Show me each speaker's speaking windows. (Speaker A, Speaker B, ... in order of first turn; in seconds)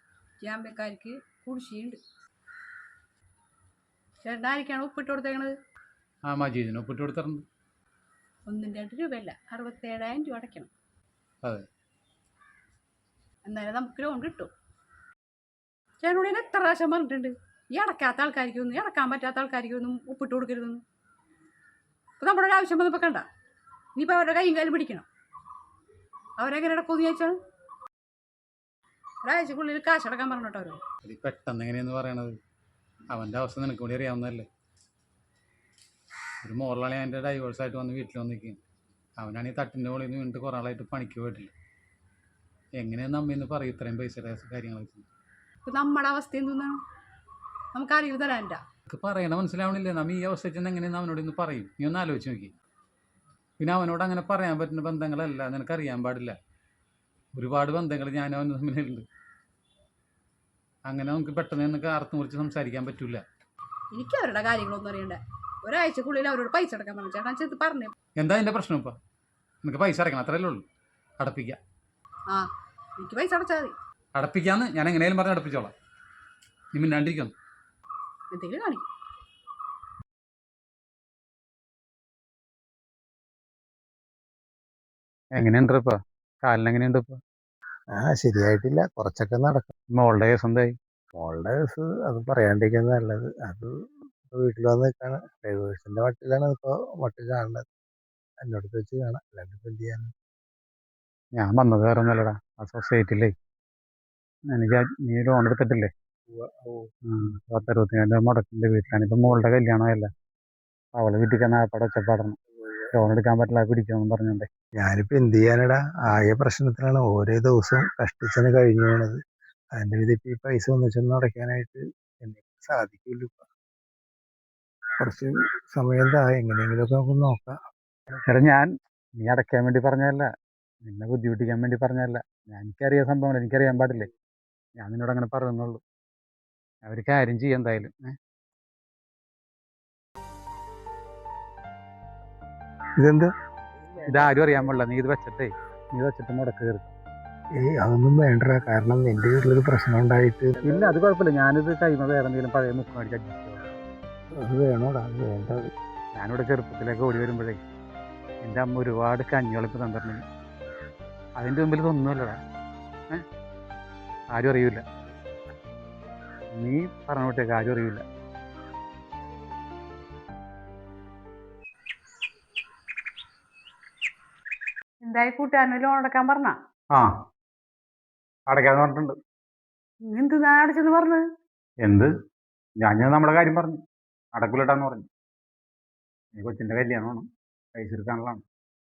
Speaker A: 0.4-2.0, 4.2-5.5, 8.5-10.7, 13.4-14.5, 16.0-20.8, 22.2-23.2, 23.9-25.1, 26.4-27.4, 29.2-30.8, 45.6-46.8, 47.7-48.6, 63.9-67.9, 72.3-73.7, 78.3-78.8, 175.0-176.6, 180.1-181.2
Speaker B: 6.2-7.4, 31.0-32.3, 33.1-34.5, 36.4-38.6, 39.2-41.5, 42.8-45.0, 48.9-52.5, 53.6-56.4, 57.4-59.0, 60.9-63.2, 68.2-69.0, 69.6-70.6, 71.2-71.6, 74.1-75.7, 76.7-77.3, 85.3-87.2, 89.9-90.7, 101.4-103.3, 104.5-105.9, 107.1-110.1, 110.9-112.4, 112.9-114.5, 128.3-128.7, 129.2-130.3, 130.8-134.1, 134.8-135.8, 136.8-138.1, 144.1-146.9, 150.6-153.6, 156.1-157.6, 158.4-160.2, 161.4-162.4, 164.3-164.8, 166.6-168.0, 178.5-179.1, 181.8-182.1, 182.8-183.8, 184.3-185.1, 186.3-188.4
Speaker C: 87.9-89.7, 91.1-93.7, 94.3-97.7, 98.4-100.1, 106.3-106.9, 114.8-119.2, 119.7-123.5, 125.0-127.6, 143.0-143.3, 147.6-150.9, 154.3-155.7